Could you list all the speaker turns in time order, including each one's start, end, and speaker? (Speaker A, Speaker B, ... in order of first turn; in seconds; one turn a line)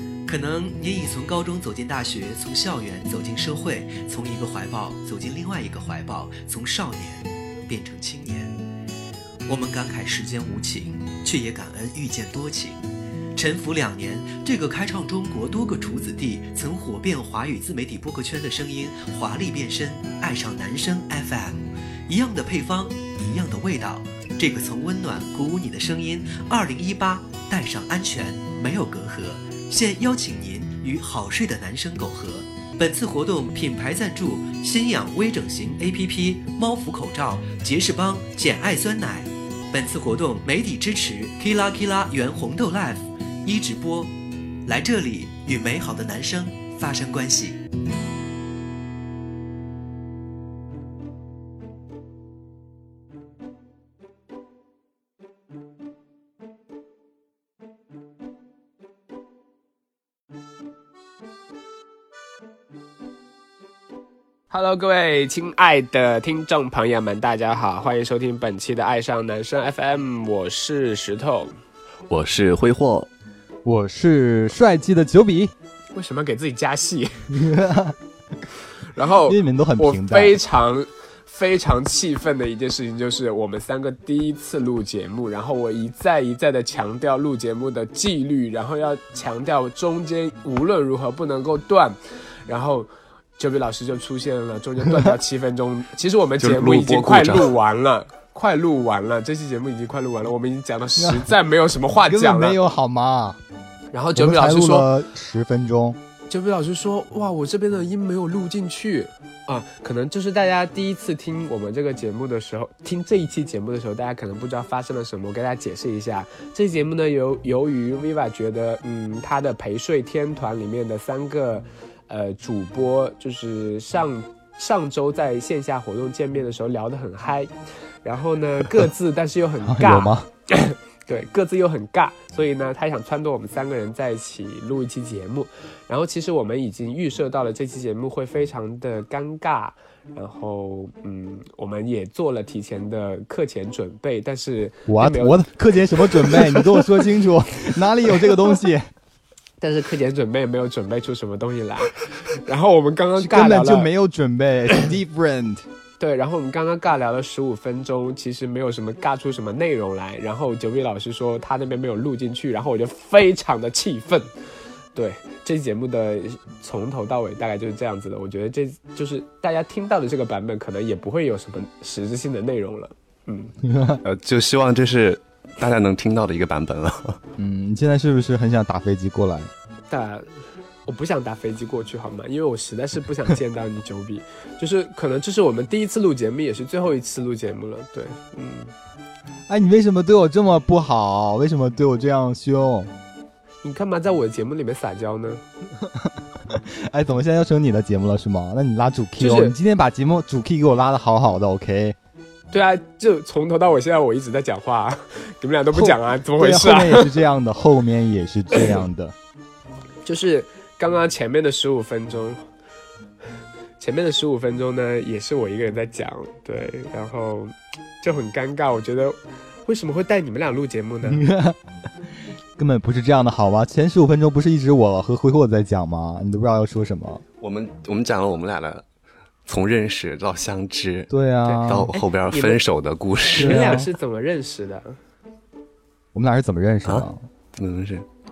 Speaker A: 0.2-8.6
Speaker A: 9.5-44.1
Speaker A: 44.7-47.6
Speaker B: 64.5-71.6
Speaker C: 72.1-73.1
Speaker D: 73.7-75.5
Speaker B: 75.9-77.3
Speaker D: 77.3-78.0
Speaker B: 78.9-102.6
Speaker D: 79.3-80.4
Speaker C: 96.4-97.5
Speaker D: 101.0-101.3
Speaker D: 102.1-103.4
Speaker B: 103.9-104.9
Speaker D: 104.2-106.0
Speaker B: 106.3-127.5
Speaker B: 128.0-145.5
Speaker D: 129.6-130.3
Speaker D: 144.9-148.9
Speaker B: 146.0-146.8
Speaker B: 149.6-153.9
Speaker D: 153.2-155.7
Speaker B: 156.0-164.3
Speaker B: 164.9-173.5
Speaker D: 173.6-174.0
Speaker C: 174.0-177.2
Speaker D: 177.4-179.5
Speaker B: 179.9-180.3
Speaker B: 180.9-188.7
Speaker D: 189.5-192.9
Speaker B: 193.6-195.4
Speaker D: 195.8-202.0
Speaker B: 199.2-199.6
Speaker B: 202.5-207.1
Speaker D: 205.7-209.2
Speaker B: 210.1-212.4
Speaker B: 213.8-221.2
Speaker D: 221.0-221.6
Speaker D: 222.6-227.2
Speaker C: 227.4-228.8
Speaker C: 229.5-231.1
Speaker D: 231.1-231.9
Speaker B: 231.5-232.6
Speaker C: 231.7-233.8
Speaker B: 233.3-235.0
Speaker D: 233.4-233.9
Speaker D: 236.1-237.2
Speaker C: 236.9-238.1